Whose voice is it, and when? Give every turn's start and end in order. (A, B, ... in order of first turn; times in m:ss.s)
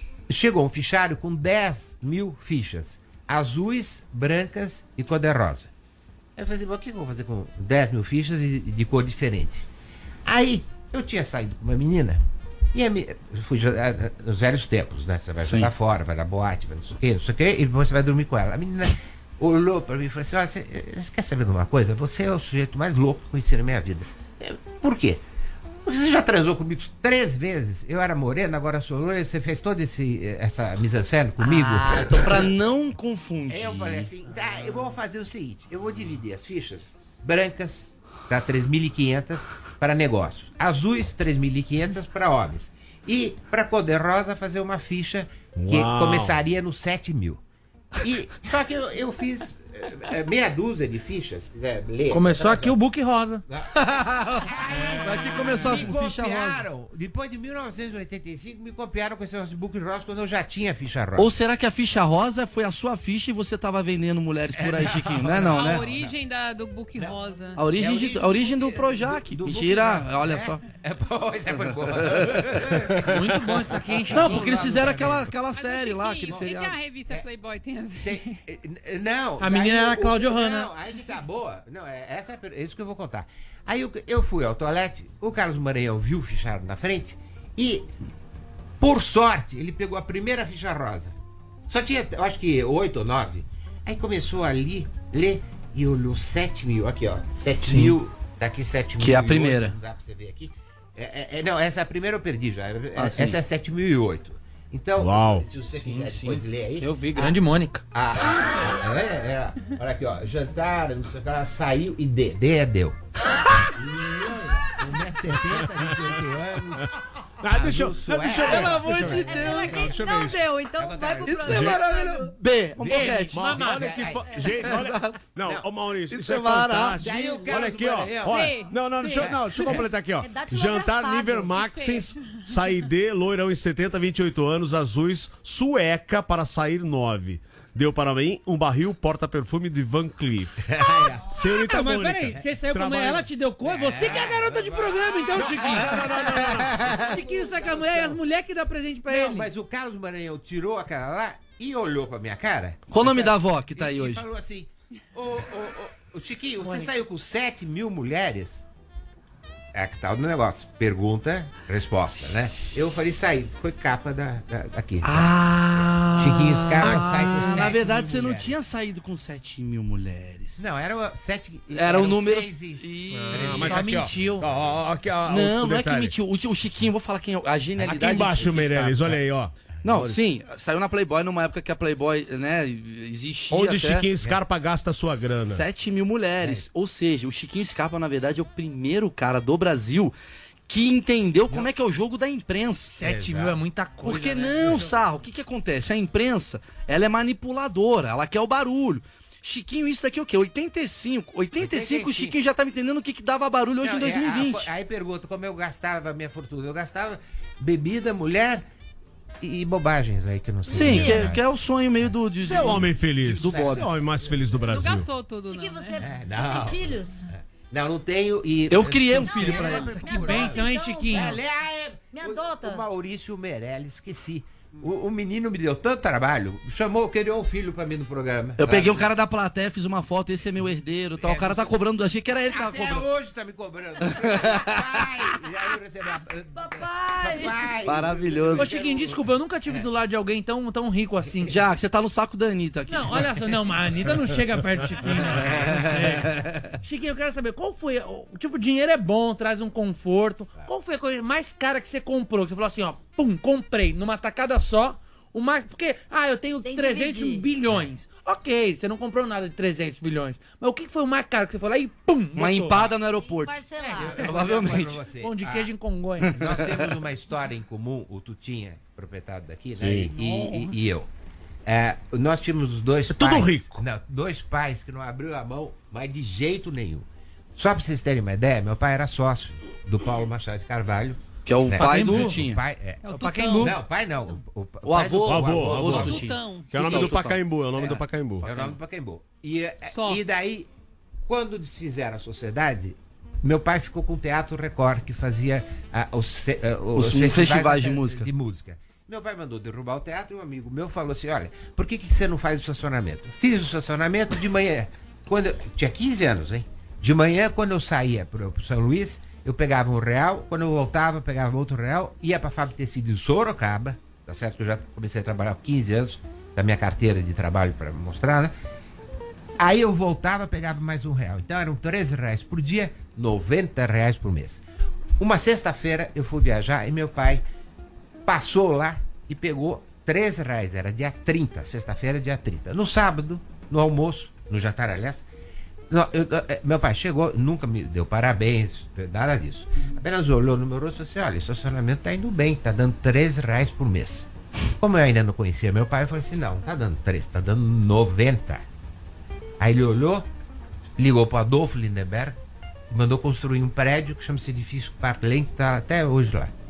0:00.3-0:05.7 A
0:06.4-0:09.7 A
0:10.3-0:12.2 A
0:12.7-0:25.2 A
0:15.4-0:15.7 B
0:25.8-0:32.5 A
0:31.4-0:34.1 B
0:33.5-0:47.4 A
0:45.6-0:46.4 C
0:48.0-0:52.8 A
0:52.1-0:53.4 D
0:53.9-0:56.6 B
0:54.4-1:01.4 A
1:01.2-1:05.9 B
1:04.6-1:06.1 A
1:05.4-1:07.6 E
1:07.0-1:15.3 A
1:07.6-1:10.6 B
1:12.1-1:12.6 B
1:13.0-1:14.8 D
1:14.1-1:16.8 B
1:15.6-1:18.4 E
1:18.0-1:27.9 A
1:19.4-1:20.7 D
1:28.8-1:31.1 A
1:31.7-1:47.4 A
1:39.0-1:39.8 B
1:43.0-1:43.4 B
1:45.0-1:45.5 C
1:45.8-1:47.8 D
1:47.9-1:59.7 A
1:57.4-2:00.5 C
1:58.4-1:59.7 B
1:59.1-2:02.3 F
2:00.8-2:01.8 A
2:01.2-2:03.4 B
2:01.4-2:01.8 C
2:02.8-2:04.9 A
2:02.9-2:04.1 D
2:03.3-2:23.3 C
2:04.6-2:05.2 B
2:05.4-2:05.7 A
2:06.1-2:07.0 B
2:06.3-2:08.6 A
2:08.3-2:09.8 E
2:10.2-2:11.9 F
2:11.6-2:12.4 E
2:20.6-2:21.4 A
2:21.5-2:29.5 D
2:23.6-2:28.2 A
2:25.3-2:27.1 C
2:29.1-2:38.6 A
2:32.9-2:34.2 B
2:39.7-2:48.6 A
2:45.0-2:50.6 B
2:46.8-2:47.2 C
2:50.6-2:54.7 A
2:51.7-2:53.8 B
2:53.1-2:56.1 C
2:53.6-2:54.5 D
2:55.3-2:59.2 B
2:57.8-3:00.2 C
2:59.8-3:04.1 B
3:03.5-3:05.7 C
3:05.2-3:10.1 B
3:06.4-3:06.6 A
3:10.7-3:13.0 B
3:12.9-3:15.0 D
3:13.0-3:13.6 A
3:14.0-3:24.7 B
3:21.6-3:22.4 A
3:23.8-3:28.6 A
3:29.4-3:31.4 A
3:30.7-3:33.9 B
3:30.7-3:31.3 F
3:32.4-3:35.1 C
3:32.5-3:34.7 A
3:34.6-3:36.0 E
3:35.4-3:37.3 F
3:36.0-3:49.1 A
3:38.7-3:40.6 B
3:39.3-3:41.4 F
3:39.9-3:41.4 D
3:42.1-3:42.9 F
3:48.6-3:53.1 B
3:51.2-3:51.8 A
3:52.5-3:59.8 A
3:54.2-3:54.8 B
3:56.6-3:57.7 F
3:57.8-3:58.7 B
3:58.6-4:01.6 D
4:01.5-4:03.3 B
4:02.9-4:22.9 D
4:05.4-4:06.7 B
4:16.6-4:17.5 F
4:22.4-4:25.0 B
4:23.1-4:24.6 F
4:24.0-4:25.7 A
4:25.2-4:26.4 D
4:26.2-4:26.6 B
4:26.3-4:31.1 A
4:29.8-4:30.1 C
4:30.2-4:30.8 B
4:31.6-4:46.3 A
4:33.0-4:33.8 C
4:41.4-4:42.6 B
4:41.8-4:42.4 D
4:43.0-4:43.8 E
4:43.1-4:43.8 D
4:44.8-4:47.4 B
4:45.2-4:48.5 C
4:45.9-4:46.7 E
4:47.8-4:50.7 A
4:49.9-4:50.2 E
4:51.2-5:18.5 A
4:57.0-4:58.3 B
5:19.6-5:24.6 A
5:25.2-5:27.4 A
5:28.3-5:35.3 A
5:35.9-5:44.3 A
5:44.8-5:48.6 A
5:49.6-5:50.3 A
5:51.0-5:52.4 A
5:52.9-5:56.5 A